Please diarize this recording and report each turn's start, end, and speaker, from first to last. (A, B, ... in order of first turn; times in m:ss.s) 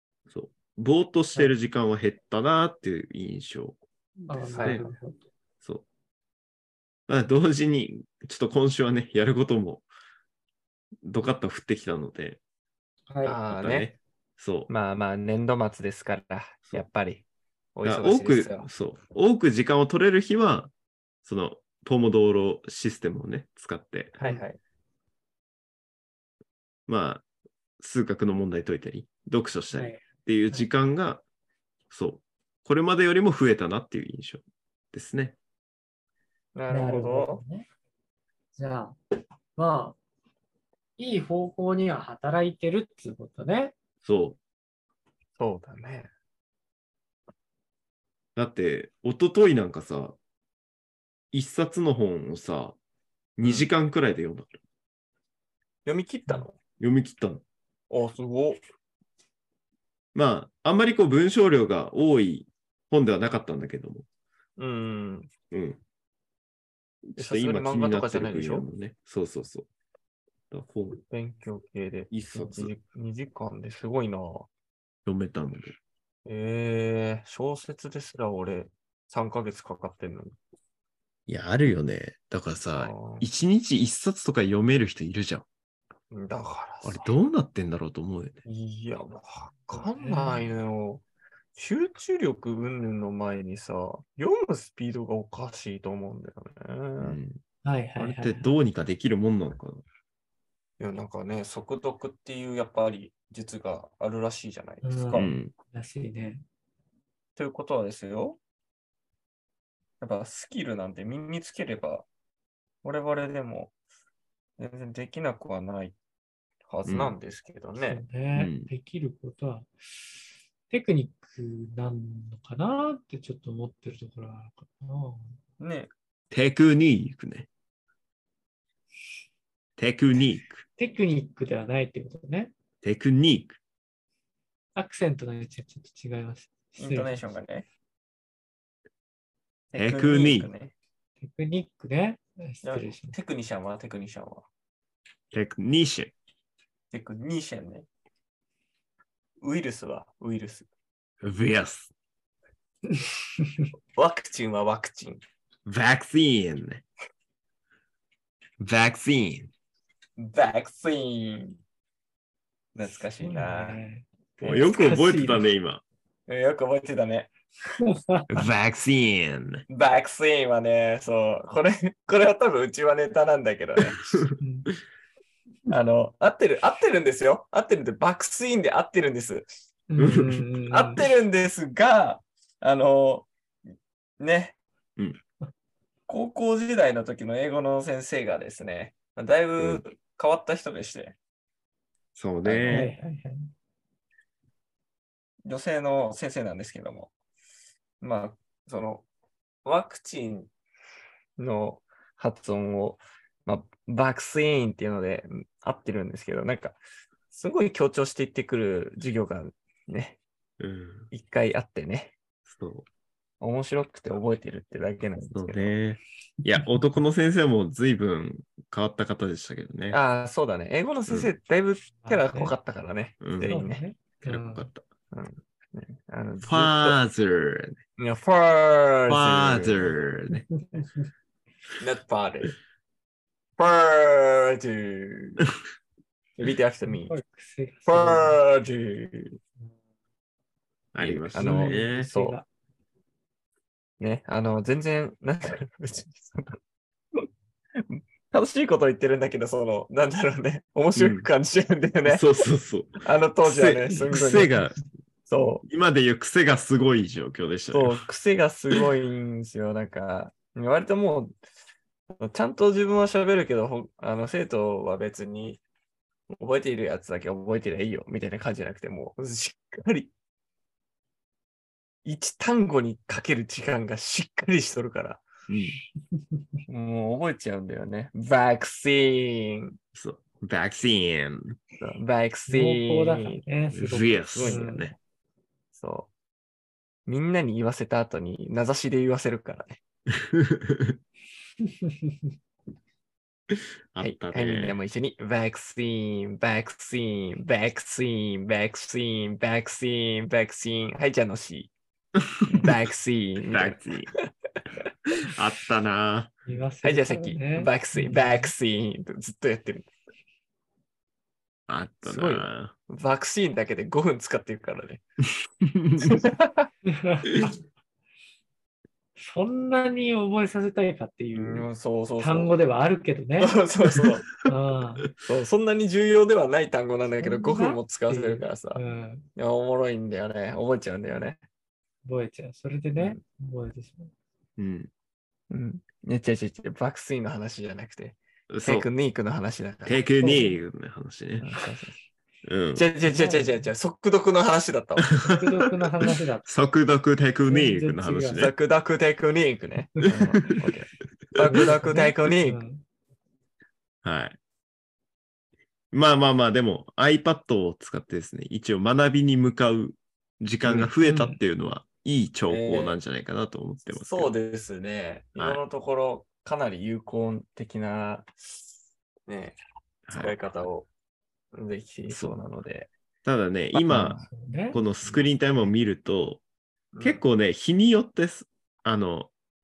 0:00.3-0:03.8 A
0:04.3-0:05.2 B
0:04.4-0:04.9 C
0:04.6-0:04.9 A
0:07.1-0:09.9 A
0:11.0-0:12.4 A
0:13.1-0:13.4 B
0:13.2-0:13.9 C
0:13.5-0:14.7 A
0:14.7-0:18.7 C
0:17.8-0:20.7 A
0:21.2-0:24.2 A
0:24.2-0:24.6 C
0:26.9-0:27.2 A
0:27.8-0:31.2 A
0:29.7-0:30.6 B
0:31.9-0:35.4 A
0:36.6-0:37.4 C
0:36.7-0:37.7 B
0:38.6-0:39.0 B
0:39.6-0:40.0 B
0:41.0-0:43.7 B
0:44.0-0:44.4 A
0:45.4-0:46.1 C
0:48.4-0:50.2 A
0:51.3-0:52.8 A
0:53.4-0:54.5 A
0:53.4-0:53.7 C
0:55.8-0:56.6 C
0:56.8-0:57.4 A
0:57.9-0:58.6 C
1:00.1-1:04.0 A
1:04.6-1:05.3 C
1:05.5-1:05.8 A
1:07.1-1:09.7 A
1:07.2-1:08.7 C
1:10.5-1:11.0 A
1:11.1-1:14.5 C
1:12.1-1:12.7 A
1:15.0-1:15.8 A
1:16.3-1:20.4 C
1:21.3-1:25.5 A
1:22.8-1:23.3 C
1:26.1-1:27.1 C
1:26.8-1:28.4 A
1:28.4-1:31.0 C
1:29.7-1:30.5 B
1:31.6-1:37.2 C
1:37.0-1:37.4 A
1:37.6-1:38.5 B
1:38.0-1:39.8 A
1:40.8-1:45.3 C
1:44.8-1:46.4 B
1:45.1-1:45.5 A
1:47.4-1:48.4 C
1:50.0-1:52.1 C
1:52.8-1:53.7 C
1:54.6-1:55.9 C
1:56.7-1:58.0 C
1:56.9-1:57.1 A
1:57.8-1:59.7 B
1:58.4-1:58.7 A
2:00.7-2:05.3 B
2:05.6-2:05.9 C
2:06.3-2:07.5 A
2:09.8-2:10.6 A
2:10.8-2:12.5 B
2:12.8-2:13.6 A
2:14.8-2:17.1 B
2:16.8-2:17.7 C
2:19.7-2:20.7 C
2:19.7-2:20.5 A
2:21.2-2:23.2 B
2:22.6-2:24.4 C
2:25.3-2:26.1 A
2:26.9-2:27.9 C
2:29.4-2:30.7 C
2:31.2-2:31.9 A
2:32.9-2:33.7 B
2:33.9-2:35.2 C
2:35.6-2:36.8 A
2:38.6-2:39.5 A
2:40.2-2:41.6 C
2:42.7-2:43.8 C
2:43.2-2:45.4 B
2:44.4-2:44.7 C
2:44.4-2:45.8 A
2:46.3-2:47.3 C
2:47.8-2:48.3 B
2:48.3-2:49.6 A
2:49.7-2:54.2 C
2:53.9-2:54.4 A
2:54.4-2:54.7 B
2:55.7-2:59.5 C
2:59.9-3:01.0 B
3:00.0-3:00.4 A
3:00.7-3:03.3 C
3:04.2-3:04.6 C
3:06.1-3:11.2 C
3:12.2-3:12.9 A
3:12.4-3:12.9 C
3:12.7-3:13.5 B
3:15.4-3:17.1 C
3:18.0-3:19.1 C
3:19.6-3:20.5 C
3:21.4-3:26.8 C
3:27.3-3:30.2 C
3:30.6-3:31.1 A
3:31.1-3:32.1 C
3:32.5-3:32.9 A
3:33.4-3:35.8 C
3:35.3-3:40.0 A
3:39.9-3:43.8 C
3:42.0-3:42.6 B
3:43.2-3:43.6 A
3:43.4-3:44.7 B
3:44.2-3:44.8 A
3:45.1-3:47.0 C
3:46.5-3:47.8 A
3:48.0-3:49.9 C
3:49.1-3:50.4 A
3:50.3-3:51.0 B
3:51.8-3:52.6 C
3:53.6-3:55.4 C
3:56.4-3:57.1 C
3:56.9-3:58.4 B
3:57.8-3:59.4 C
4:00.9-4:02.1 A
4:01.0-4:02.4 C
4:01.3-4:02.4 B
4:04.0-4:06.6 C
4:07.8-4:12.3 C
4:11.0-4:11.3 A
4:12.1-4:14.8 A
4:13.0-4:14.5 C
4:15.3-4:15.6 C
4:15.6-4:18.0 A
4:17.7-4:21.3 C
4:22.2-4:25.6 C
4:26.3-4:30.1 C
4:32.0-4:35.2 C
4:35.5-4:35.8 A
4:36.7-4:39.8 C
4:39.9-4:41.6 A
4:41.8-4:43.4 C
4:42.5-4:44.9 B
4:43.7-4:44.9 A
4:44.3-4:44.7 C
4:45.7-4:46.1 C
4:47.1-4:49.8 C
4:50.1-4:51.0 A
4:51.6-4:51.9 B
4:53.5-4:54.8 A
4:54.0-5:01.7 C
5:02.3-5:02.7 A
5:02.4-5:04.2 C
5:03.5-5:04.1 A
5:05.2-5:06.3 A
5:06.4-5:08.5 B
5:06.8-5:09.9 C
5:11.7-5:12.7 A
5:12.0-5:15.0 C
5:15.6-5:16.2 A
5:16.0-5:16.7 C
5:16.9-5:17.5 B
5:19.2-5:21.7 B
5:21.3-5:22.6 C
5:22.2-5:23.6 B
5:23.4-5:24.3 C
5:24.4-5:25.1 B
5:25.2-5:28.8 C
5:27.2-5:29.3 B
5:29.4-5:31.4 C
5:32.0-5:34.1 B
5:33.0-5:33.2 C
5:34.6-5:34.9 A
5:35.5-5:40.0 C
5:38.5-5:38.9 A
5:39.9-5:41.4 A
5:40.2-5:40.6 B
5:41.4-5:42.0 C
5:42.4-5:42.8 A
5:42.7-5:45.1 C
5:43.0-5:43.7 B
5:45.0-5:48.5 A
5:45.2-5:46.5 B
5:47.5-5:48.5 B
5:48.4-5:52.6 C
5:51.4-5:52.8 B
5:54.0-5:54.4 A
5:55.9-6:04.3 A
6:00.7-6:01.4 B
6:02.5-6:03.0 C
6:03.9-6:08.3 C
6:09.3-6:09.6 C
6:10.1-6:10.4 A
6:10.1-6:10.9 C
6:11.5-6:12.9 C
6:12.1-6:12.4 A
6:13.2-6:14.2 A
6:13.8-6:14.3 C
6:14.2-6:14.8 B
6:14.7-6:16.4 A
6:16.9-6:17.2 C
6:17.0-6:19.3 A